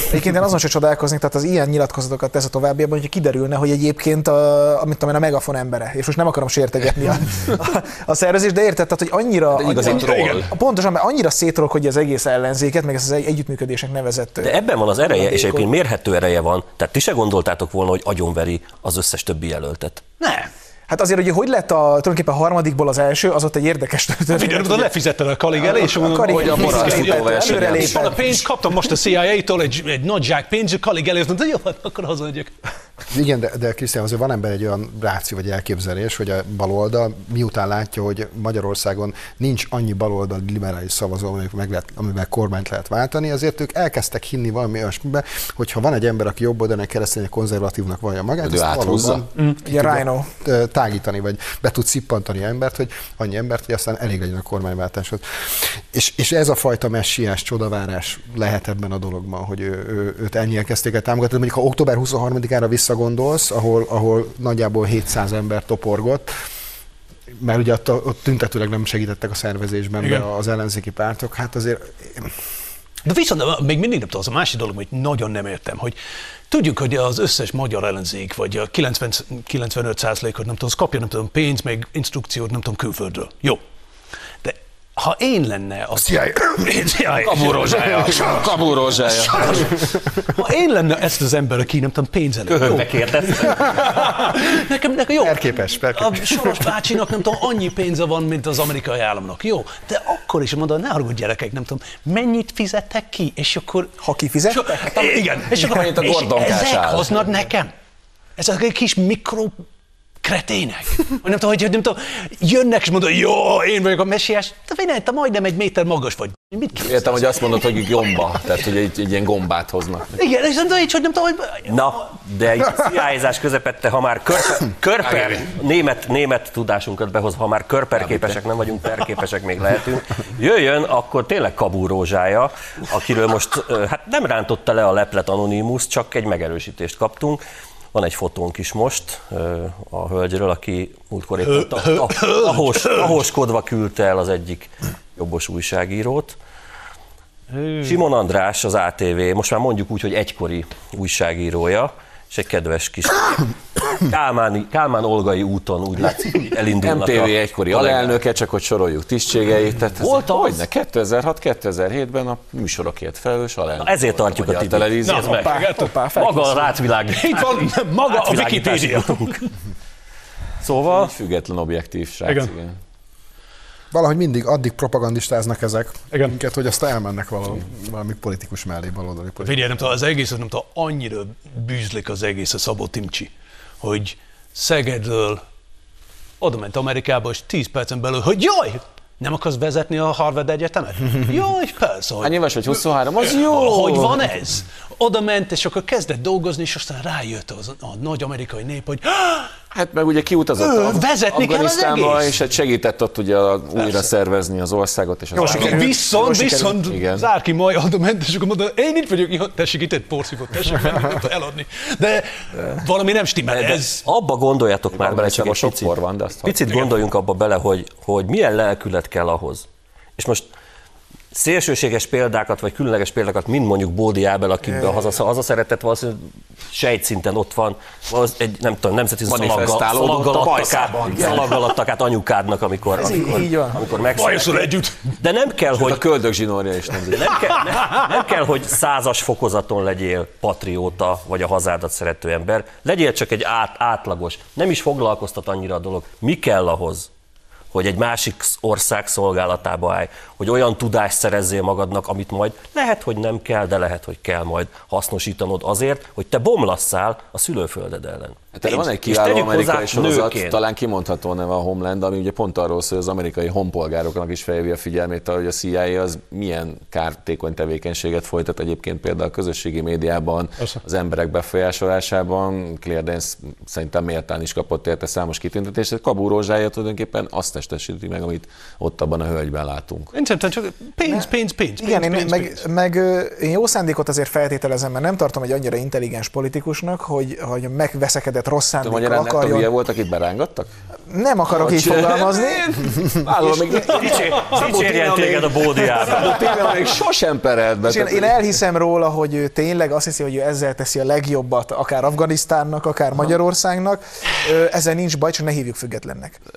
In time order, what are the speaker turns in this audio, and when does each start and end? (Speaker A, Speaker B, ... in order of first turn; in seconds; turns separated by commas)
Speaker A: 0.1-15.7, Speaker B: 9.5-10.5, Speaker C: 9.8-10.5, Speaker D: 14.4-20.0, Speaker C: 20.2-20.5, Speaker A: 20.9-24.9, Speaker C: 24.3-32.5, Speaker A: 25.6-28.4, Speaker B: 26.2-28.3, Speaker E: 33.1-66.3, Speaker B: 48.4-49.2, Speaker A: 49.5-50.3, Speaker E: 67.3-72.4, Speaker C: 73.0-76.0, Speaker C: 76.5-83.6, Speaker C: 84.4-88.5, Speaker B: 87.2-89.8, Speaker C: 89.0-103.9, Speaker D: 92.6-93.9, Speaker E: 95.2-97.3, Speaker A: 104.0-105.1, Speaker C: 104.5-107.7, Speaker B: 104.9-107.2, Speaker C: 108.4-109.6, Speaker C: 110.2-117.9, Speaker B: 116.8-120.2, Speaker C: 120.2-122.0, Speaker D: 121.7-137.4, Speaker B: 125.1-125.5, Speaker B: 128.0-128.4, Speaker D: 137.9-146.4, Speaker C: 141.4-143.2, Speaker C: 147.5-148.0, Speaker D: 147.8-158.2, Speaker B: 156.8-165.4, Speaker D: 160.0-160.6, Speaker D: 163.8-169.4, Speaker C: 165.1-166.0, Speaker A: 165.3-166.7, Speaker C: 167.1-169.5, Speaker D: 170.6-171.1, Speaker B: 170.8-172.8, Speaker C: 172.2-172.5, Speaker E: 173.9-179.9, Speaker C: 179.4-185.4, Speaker C: 186.4-199.6, Speaker B: 192.2-194.3, Speaker B: 199.7-206.0, Speaker C: 200.6-202.4, Speaker A: 205.3-206.8, Speaker C: 205.4-214.0, Speaker B: 206.8-207.3, Speaker D: 213.5-219.7, Speaker B: 214.9-216.9, Speaker D: 220.2-220.5, Speaker D: 221.3-236.0, Speaker A: 224.7-225.0, Speaker B: 229.3-231.7, Speaker A: 233.0-233.8, Speaker C: 234.1-235.2, Speaker B: 235.8-237.4, Speaker D: 237.1-247.1, Speaker D: 247.7-260.6, Speaker B: 258.5-280.1, Speaker C: 280.1-282.6, Speaker A: 281.8-289.7, Speaker B: 288.8-290.7, Speaker A: 291.1-292.6, Speaker B: 291.5-298.4, Speaker C: 293.5-294.6, Speaker D: 293.9-296.5, Speaker A: 297.9-306.4